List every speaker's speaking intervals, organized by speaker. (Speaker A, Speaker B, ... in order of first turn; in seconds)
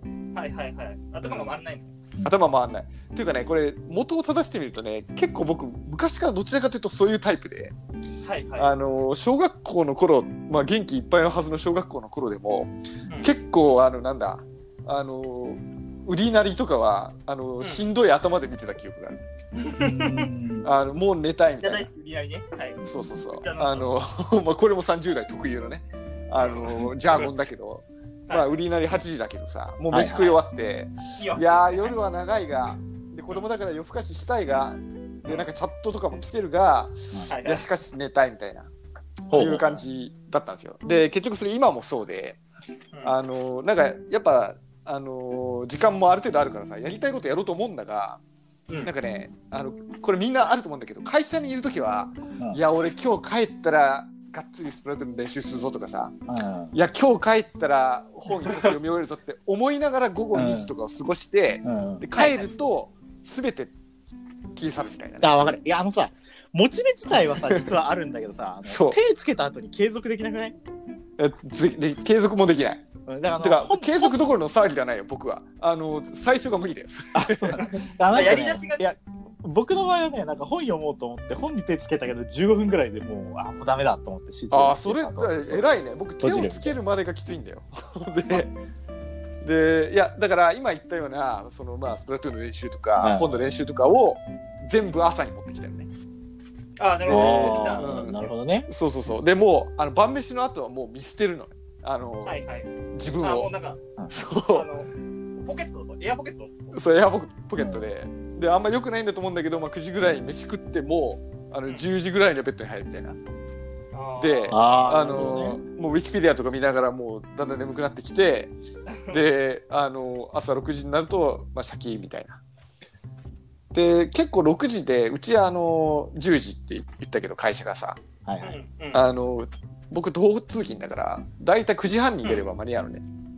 Speaker A: 0.3-1.9, 8.2-8.7, 13.1-13.3, 17.6-17.9, 19.6-20.3, 21.6-23.9, 26.4-27.4, 31.2-31.9, 37.3-37.6, 62.1-62.5, 77.6-78.8, 96.8-98.0, 102.2-103.8, 104.5-106.7, 113.9-114.6, 118.9-119.2, 128.4-129.0
Speaker B: 1.2-1.6, 2.2-7.7, 8.6-12.7, 13.2-19.2, 20.6-21.9, 22.9-38.7, 39.3-42.4, 43.0-48.2, 48.8-56.2, 56.7-63.7, 64.5-65.3, 67.3-67.7, 68.7-69.0, 71.2-72.8, 73.4-77.6, 84.5-88.5, 89.4-95.9, 97.1-103.5, 104.1-104.7, 106.7-113.2, 114.2-118.5, 119.1-122.4, 123.7-128.0, 128.9-133.0
Speaker C: 19.8-20.7, 22.8-23.1, 29.9-30.4, 39.3-39.8, 56.3-56.7, 60.3-60.7, 61.6-62.0, 65.2-70.5, 73.1-74.2, 77.1-86.8, 93.0-93.5, 97.1-98.7, 104.0-104.2, 107.5-107.9, 114.5-115.6, 128.2-128.6